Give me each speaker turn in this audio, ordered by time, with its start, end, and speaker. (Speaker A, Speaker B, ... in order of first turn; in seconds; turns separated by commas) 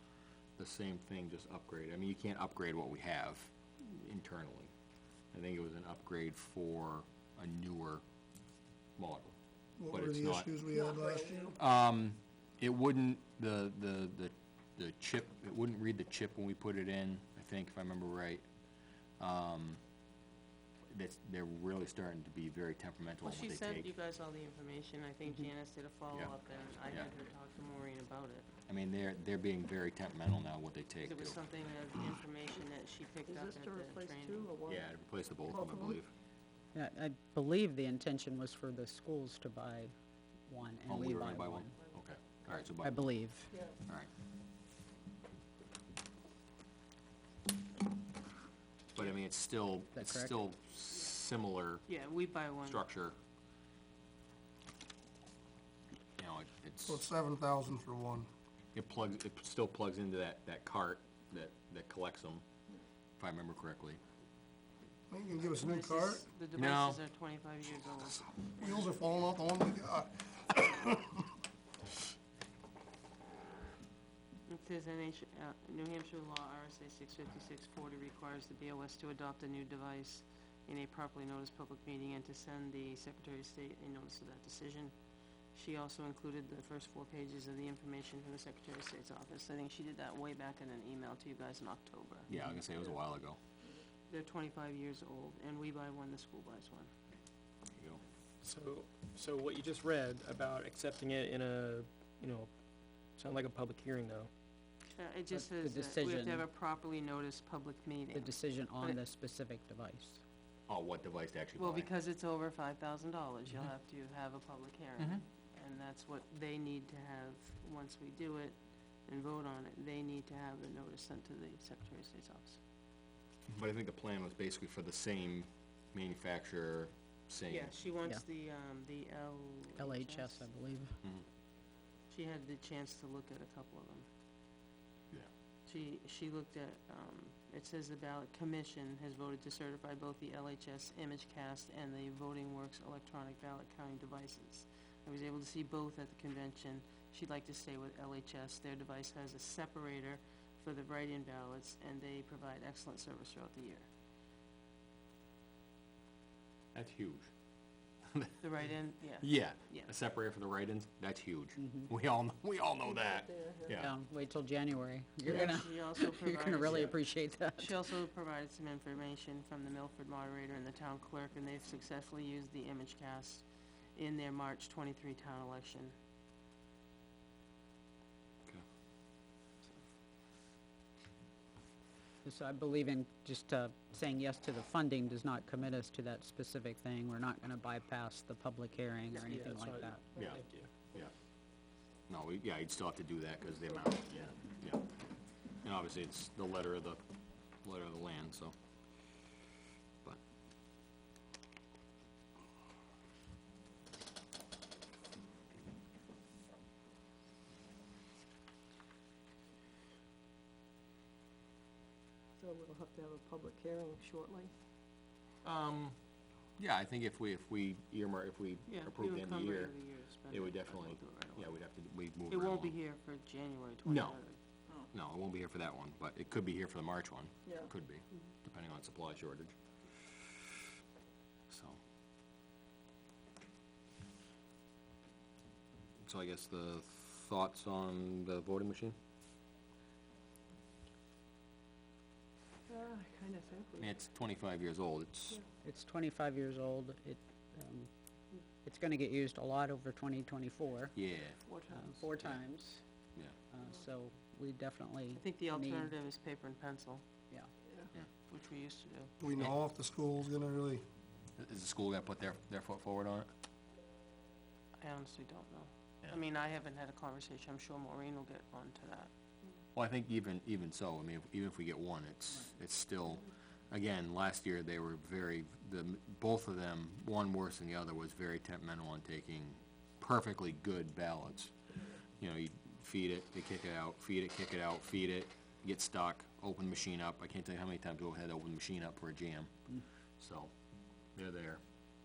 Speaker A: 0.6-4.7, Speaker A: 5.3-8.0, Speaker A: 9.0-9.3, Speaker B: 9.8-11.6, Speaker A: 9.9-10.5, Speaker C: 10.7-11.6, Speaker A: 11.6-18.4, Speaker A: 19.2-19.8, Speaker A: 20.9-23.9, Speaker D: 23.2-28.5, Speaker A: 28.7-31.4, Speaker D: 31.0-34.5, Speaker C: 33.3-34.8, Speaker A: 34.7-36.1, Speaker C: 35.5-36.0, Speaker E: 36.7-39.9, Speaker E: 40.5-41.7, Speaker A: 40.9-43.0, Speaker E: 42.5-43.6, Speaker A: 48.9-51.9, Speaker E: 50.0-50.3, Speaker D: 51.9-52.9, Speaker A: 52.6-53.2, Speaker A: 56.2-57.1, Speaker B: 56.9-58.3, Speaker A: 58.7-62.5, Speaker A: 63.2-64.0, Speaker B: 65.1-66.3, Speaker D: 65.6-69.1, Speaker A: 66.5-67.0, Speaker B: 68.6-71.3, Speaker D: 74.5-84.9, Speaker D: 85.5-92.3, Speaker A: 92.3-93.4, Speaker D: 94.1-96.9, Speaker A: 97.7-98.0, Speaker F: 98.4-102.5, Speaker F: 103.2-104.3, Speaker D: 104.9-109.0, Speaker E: 105.3-106.5, Speaker E: 108.1-110.2, Speaker A: 110.7-111.9, Speaker D: 111.6-122.6, Speaker A: 123.5-127.8, Speaker D: 127.5-130.5, Speaker E: 129.8-131.0, Speaker D: 132.1-134.1, Speaker D: 135.7-153.9, Speaker A: 156.7-157.3, Speaker A: 158.0-158.4, Speaker D: 158.4-159.9, Speaker A: 159.2-163.9, Speaker E: 161.6-161.9, Speaker C: 162.9-163.8, Speaker E: 163.8-167.9, Speaker D: 165.2-167.0, Speaker A: 165.2-165.6, Speaker A: 166.6-166.9, Speaker D: 167.6-173.4, Speaker D: 174.0-175.9, Speaker E: 182.2-190.0, Speaker F: 189.2-190.7, Speaker A: 190.2-191.1, Speaker A: 192.1-194.9, Speaker A: 195.6-197.0, Speaker A: 197.6-198.5, Speaker C: 212.4-214.5, Speaker A: 215.4-216.0, Speaker A: 216.6-219.7, Speaker D: 218.7-221.7, Speaker A: 220.3-222.8, Speaker D: 222.3-224.4, Speaker A: 223.8-224.2, Speaker A: 224.9-230.1, Speaker A: 231.5-231.8, Speaker A: 236.0-239.0, Speaker C: 242.7-243.9, Speaker A: 243.8-245.4, Speaker E: 245.6-247.9, Speaker E: 248.6-251.0, Speaker A: 250.9-251.4, Speaker C: 251.5-251.9, Speaker E: 251.7-252.8, Speaker E: 253.5-255.9, Speaker D: 255.1-257.0, Speaker D: 258.3-259.1, Speaker B: 259.2-260.8, Speaker A: 261.4-263.3, Speaker D: 264.8-269.1, Speaker A: 269.8-290.5, Speaker A: 291.1-291.6